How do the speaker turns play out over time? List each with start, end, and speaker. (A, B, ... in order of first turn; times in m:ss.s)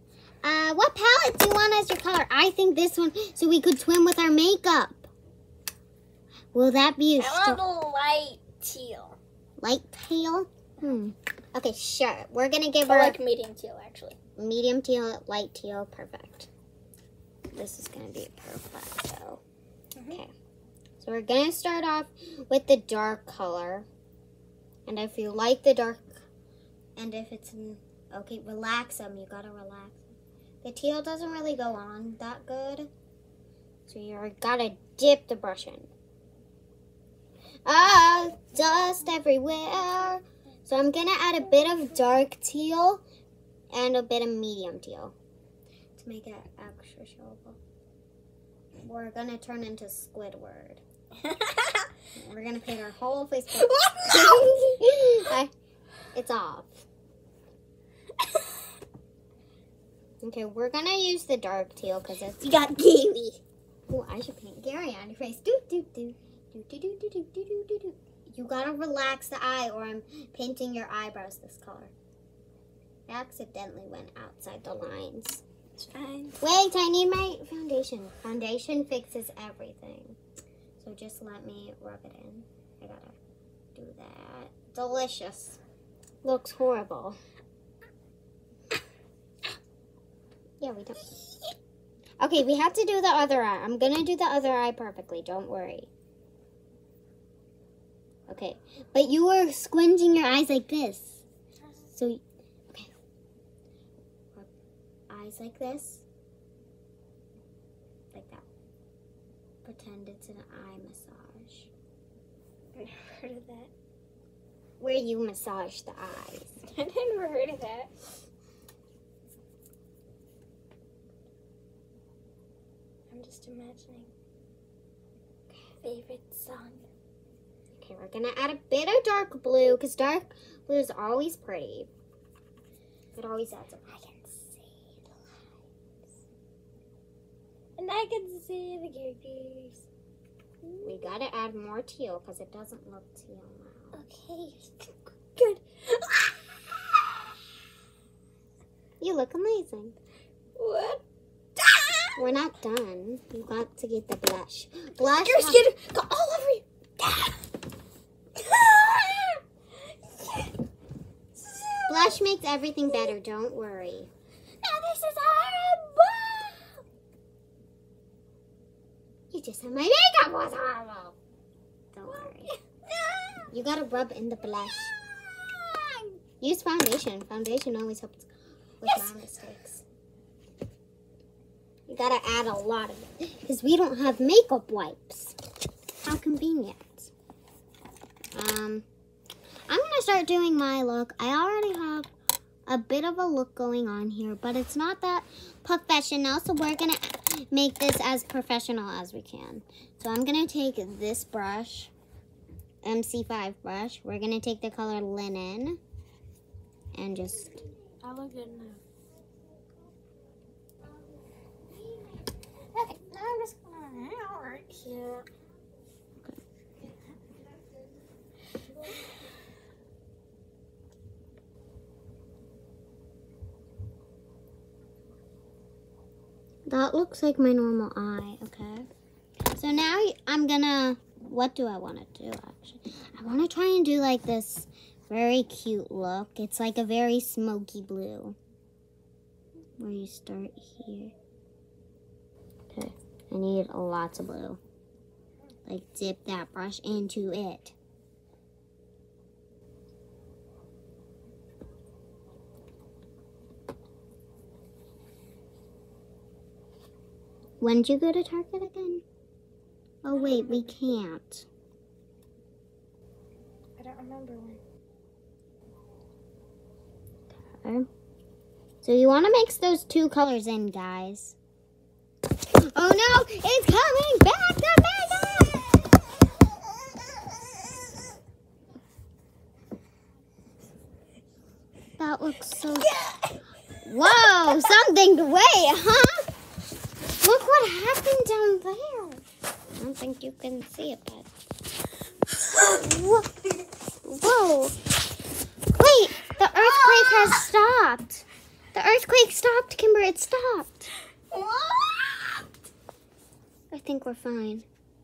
0:00.4-0:05.1 A
0:06.5-0:07.6 A
0:07.2-0:09.2 B
0:09.6-0:13.2 A
0:12.8-0:14.2 B
0:14.4-0:16.5 A
0:17.5-0:19.4 A
0:20.0-0:20.3 A
0:21.0-0:23.9 A
0:24.9-0:26.2 A
0:27.0-0:30.0 A
0:30.6-0:32.9 A
0:33.9-0:35.9 A
0:37.7-0:43.0 A
0:43.7-0:45.1 A
0:46.0-0:47.6 A
0:48.8-0:50.8 A
0:51.2-0:51.9 B
0:52.1-0:55.5 A
0:53.6-0:54.8 B
0:56.1-0:56.7 A
1:00.2-1:02.5 A
1:02.3-1:03.4 B
1:03.9-1:11.9 A
1:13.1-1:15.4 A
1:15.8-1:16.4 B
1:16.4-1:20.2 A
1:20.8-1:23.2 A
1:23.8-1:25.6 A
1:26.2-1:27.2 A
1:30.6-1:31.2 A
1:32.2-1:35.9 A
1:38.3-1:41.2 A
1:41.9-1:42.9 A
1:45.1-1:46.0 A
1:48.1-1:48.4 A
1:49.6-1:51.7 A
1:52.8-1:53.7 B
1:54.8-1:56.6 A
1:56.7-1:57.9 B
2:03.1-2:04.1 B
2:05.8-2:06.8 B
2:07.7-2:11.9 A
2:13.1-2:14.1 A
2:14.0-2:14.9 B
2:17.8-2:19.9 B
2:20.6-2:21.1 B
2:20.8-2:24.0 A
2:23.9-2:27.2 B
2:29.0-2:30.0 A
2:30.6-2:31.0 B
2:31.6-2:32.4 B
2:32.2-2:35.7 A
2:35.0-2:37.4 B
2:38.4-2:39.4 B
2:40.1-2:40.5 B
2:41.4-2:42.2 B
2:41.9-2:44.1 A
2:44.6-2:46.8 B
2:49.3-2:51.2 A
2:51.9-2:52.5 A
2:52.1-2:53.5 B
2:53.5-2:54.9 A
2:54.9-2:56.2 B
2:56.4-2:59.8 A
2:58.8-2:59.1 B
3:01.9-3:05.4 A
3:06.0-3:07.1 A
3:08.3-3:08.9 A
3:09.7-3:12.1 A
3:12.7-3:21.9 A
3:22.8-3:25.8 A
3:26.9-3:27.6 A
3:28.0-3:28.8 B
3:32.7-3:35.3 B
3:46.7-3:48.9 A
3:49.5-3:58.4 A
3:59.8-4:01.1 A
4:02.7-4:04.6 A
4:05.7-4:07.8 A
4:17.6-4:19.0 A
4:20.0-4:21.5 A
4:20.1-4:20.7 B
4:23.8-4:24.6 B
4:27.6-4:27.9 A
4:28.8-4:31.4 A
4:32.6-4:36.0 A
4:42.0-4:42.9 A
4:42.8-4:43.3 B
4:43.8-4:46.3 A
4:44.1-4:44.8 B
4:47.2-4:49.2 A
4:49.8-4:51.3 A
4:52.7-4:53.3 A
4:54.0-4:54.8 A
4:55.8-5:00.9 A
4:56.5-4:57.4 B
5:01.3-5:02.4 B
5:03.7-5:04.7 A